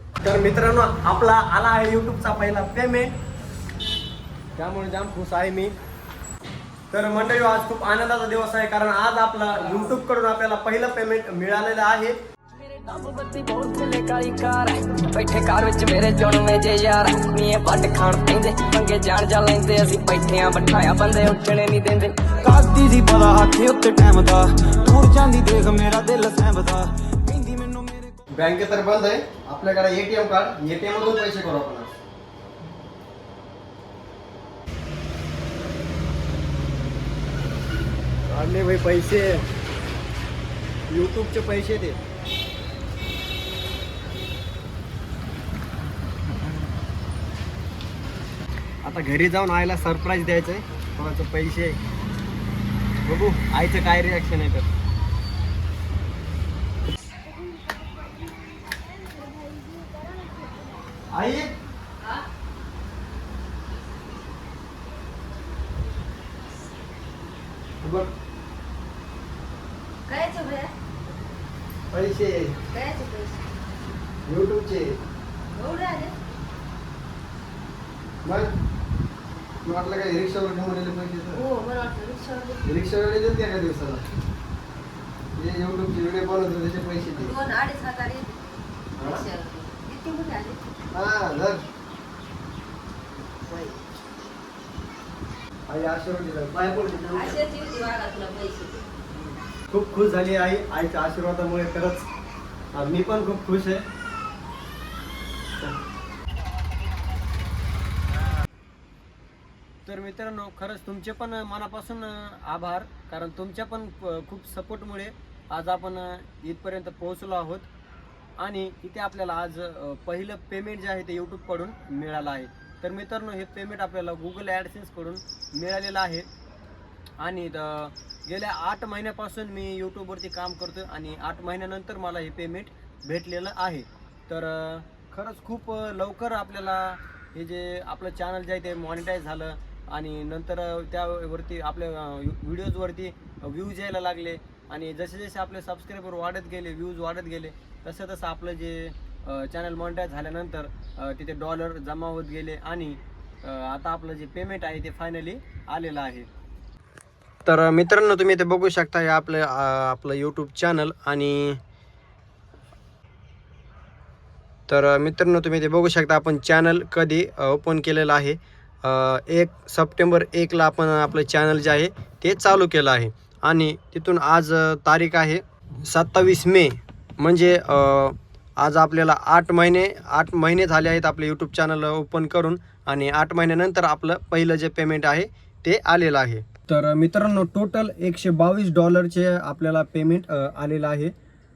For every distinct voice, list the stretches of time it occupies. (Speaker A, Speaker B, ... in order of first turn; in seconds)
Speaker A: 0.2-3.1, 4.5-5.8, 6.9-12.2, 28.3-31.9, 38.3-39.5, 40.9-42.0, 48.8-51.8, 53.0-54.7, 61.1-61.5, 67.8-68.1, 71.9-72.6, 74.2-75.0, 78.2-78.5, 79.6-81.5, 82.6-84.0, 85.4-87.4, 89.0-89.2, 90.9-91.6, 95.7-97.4, 99.7-102.1, 102.7-103.8, 109.9-117.7, 118.4-126.3, 127.2-156.3, 157.4-161.6, 164.7-191.1
Speaker B: 12.6-22.2
Speaker C: 22.4-28.2
Speaker D: 70.1-70.7, 72.7-73.4, 75.5-76.1, 81.3-82.7, 87.2-88.4, 89.0-90.6, 93.5-93.8, 97.1-99.0